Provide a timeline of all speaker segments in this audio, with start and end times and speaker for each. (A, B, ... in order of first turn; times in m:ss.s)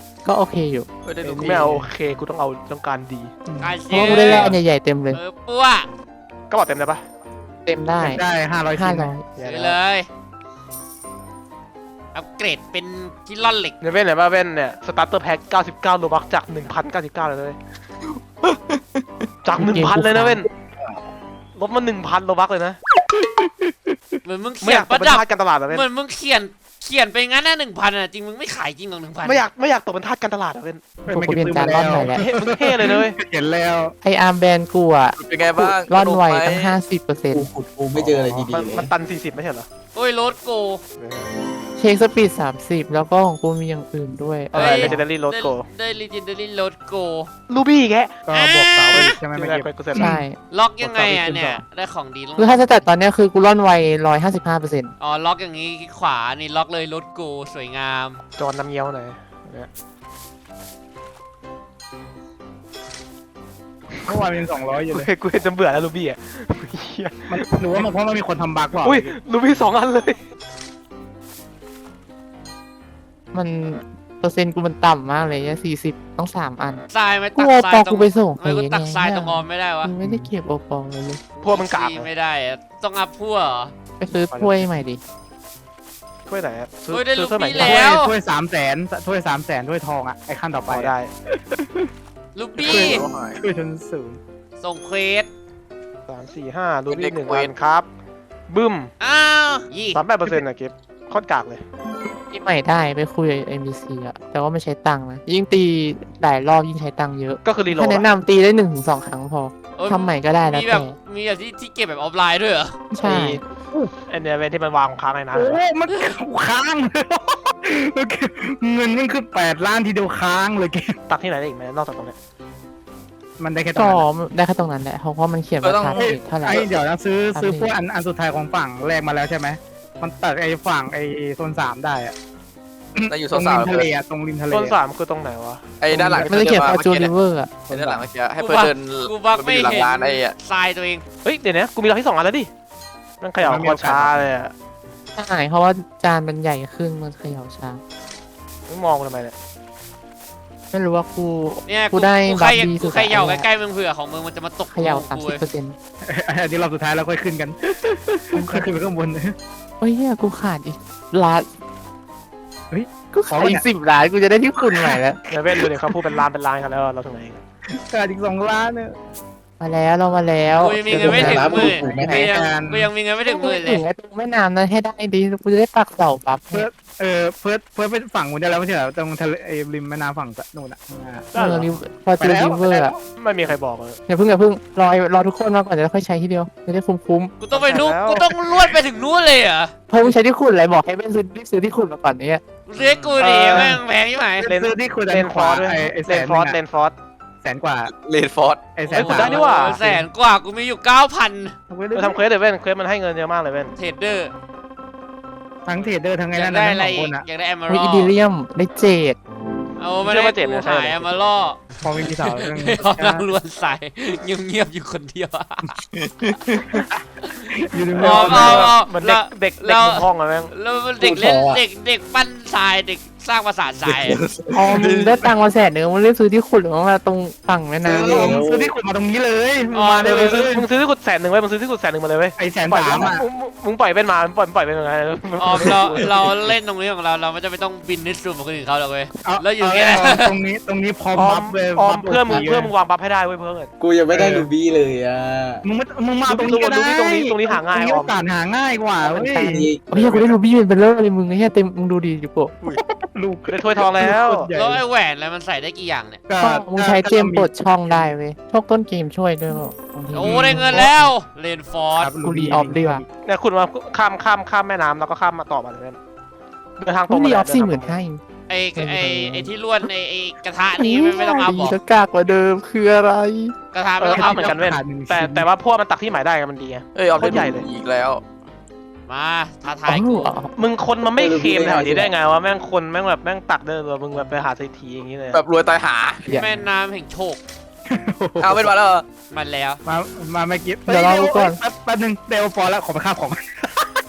0:00.2-0:00.9 A
0:01.0-0:01.7 B
0:01.2-0:01.9 C
0:01.4-0:03.3 D
0:03.5-0:04.6 C
0:03.6-0:04.6 E
0:03.9-0:05.2 A
0:05.1-0:05.9 E
0:06.5-0:07.0 D
0:07.7-0:09.2 A
0:08.0-0:09.1 C
0:09.4-0:09.8 D
0:09.4-0:10.1 E
0:12.1-0:13.8 E
0:13.8-0:17.6 D
0:18.4-0:19.3 B
0:19.4-0:20.5 D
0:19.6-0:20.5 A
0:21.6-0:22.8 D
0:24.2-0:29.4 E
0:24.6-0:25.9 D
0:29.2-0:30.8 D
0:31.0-0:34.0 C
0:31.1-0:32.2 A
0:31.9-0:33.2 D
0:34.0-0:37.5 A
0:35.2-0:36.8 B
0:37.3-0:38.9 F
0:37.9-0:38.5 C
0:38.5-0:39.7 D
0:40.0-0:40.8 E
0:41.0-0:41.3 D
0:41.8-0:45.0 A
0:44.5-0:45.6 D
0:44.6-0:47.3 E
0:47.5-0:48.2 D
0:48.3-0:50.2 C
0:48.3-0:49.2 E
0:48.9-0:50.2 D
0:50.0-0:50.4 A
0:50.5-0:52.6 E
0:50.8-0:51.6 D
0:52.4-0:54.9 A
0:55.0-0:58.2 E
0:58.4-0:59.7 D
1:03.9-1:04.3 D
1:04.1-1:05.1 C
1:04.9-1:07.8 D
1:07.3-1:09.2 C
1:08.8-1:10.2 D
1:13.3-1:16.8 A
1:16.9-1:19.9 E
1:17.4-1:21.2 A
1:20.0-1:20.3 C
1:21.4-1:23.7 E
1:21.4-1:22.1 D
1:24.0-1:25.0 A
1:24.3-1:24.6 D
1:26.3-1:27.8 D
1:26.9-1:28.1 E
1:27.6-1:31.9 C
1:30.7-1:31.1 D
1:32.4-1:33.0 E
1:32.6-1:33.4 B
1:32.6-1:34.2 C
1:34.6-1:35.3 E
1:36.1-1:37.9 D
1:36.9-1:37.5 B
1:38.5-1:38.9 D
1:39.0-1:40.0 E
1:40.0-1:41.6 D
1:42.3-1:51.0 A
1:47.4-1:48.1 D
1:49.8-1:52.8 E
1:52.9-1:53.4 A
1:53.0-1:53.4 D
1:54.1-1:55.6 D
1:55.3-2:01.0 C
2:01.1-2:02.2 D
2:03.4-2:04.1 C
2:03.8-2:06.7 A
2:05.6-2:06.7 B
2:05.9-2:12.1 C
2:07.3-2:07.7 A
2:13.0-2:14.8 C
2:13.1-2:13.9 B
2:14.5-2:16.3 D
2:15.8-2:17.1 B
2:15.9-2:16.2 C
2:16.3-2:17.6 A
2:17.7-2:18.0 C
2:17.7-2:20.4 B
2:18.4-2:21.0 E
2:21.2-2:22.5 D
2:23.2-2:24.5 D
2:23.4-2:24.3 C
2:25.2-2:27.8 A
2:28.7-2:29.4 D
2:30.7-2:33.5 A
2:31.7-2:35.4 E
2:34.7-2:35.8 A
2:36.1-2:39.4 C
2:38.3-2:38.7 A
2:39.8-2:41.5 A
2:42.7-2:43.6 C
2:43.1-2:45.2 A
2:44.7-2:45.0 C
2:45.3-2:47.4 D
2:45.5-2:46.2 C
2:47.7-2:49.0 C
2:49.6-2:51.9 A
2:50.6-2:53.8 E
2:50.9-2:52.4 F
2:51.8-2:52.9 C
2:53.2-2:56.7 A
2:56.5-3:01.3 C
3:01.3-3:01.7 D
3:01.3-3:03.0 A
3:02.2-3:03.0 C
3:02.6-3:04.0 D
3:04.1-3:07.3 A
3:07.4-3:09.7 E
3:07.5-3:08.3 D
3:09.9-3:12.4 A
3:12.7-3:14.5 E
3:12.8-3:13.2 B
3:13.2-3:13.8 D
3:14.4-3:16.6 C
3:14.4-3:17.0 D
3:17.4-3:17.9 C
3:17.9-3:18.7 B
3:18.8-3:19.4 C
3:18.9-3:21.6 E
3:18.9-3:19.9 D
3:21.7-3:22.2 C
3:22.0-3:23.8 D
3:23.8-3:24.3 E
3:25.7-3:27.2 C
3:26.3-3:28.1 E
3:27.7-3:29.2 A
3:29.8-3:31.6 E
3:30.0-3:31.3 D
3:31.8-3:33.3 C
3:32.2-3:35.8 E
3:35.9-3:36.8 B
3:37.5-3:38.7 C
3:37.9-3:40.5 D
3:38.0-3:44.2 E
3:41.0-3:41.6 F
3:43.9-3:45.3 B
3:44.5-3:48.3 A
3:47.8-3:50.7 C
3:47.9-3:48.7 F
3:49.7-3:50.4 E
3:50.1-3:56.1 D
3:52.4-3:53.2 C
3:55.4-4:00.3 E
3:59.2-4:02.7 C
4:01.2-4:03.7 D
4:03.8-4:05.6 F
4:04.1-4:04.5 C
4:05.6-4:10.1 C
4:06.3-4:08.1 D
4:09.0-4:12.5 A
4:09.4-4:10.2 F
4:12.8-4:14.8 C
4:13.5-4:14.5 D
4:14.5-4:16.2 E
4:16.3-4:18.1 C
4:16.4-4:21.1 A
4:20.1-4:22.1 E
4:20.2-4:20.9 C
4:22.0-4:23.0 C
4:22.2-4:23.0 A
4:23.2-4:26.0 D
4:26.8-4:28.0 D
4:27.1-4:28.2 A
4:28.5-4:31.8 E
4:28.8-4:29.9 A
4:30.8-4:33.5 A
4:33.7-4:34.6 E
4:34.0-4:37.7 D
4:34.1-4:35.5 C
4:36.9-4:38.2 B
4:39.1-4:40.3 E
4:39.9-4:40.5 A
4:40.6-4:45.4 D
4:41.1-4:42.1 F
4:45.3-4:46.2 B
4:46.2-4:46.5 A
4:46.3-4:47.4 E
4:47.9-4:48.8 C
4:48.4-4:49.0 B
4:49.3-4:49.8 E
4:49.8-4:53.9 C
4:50.9-4:51.6 A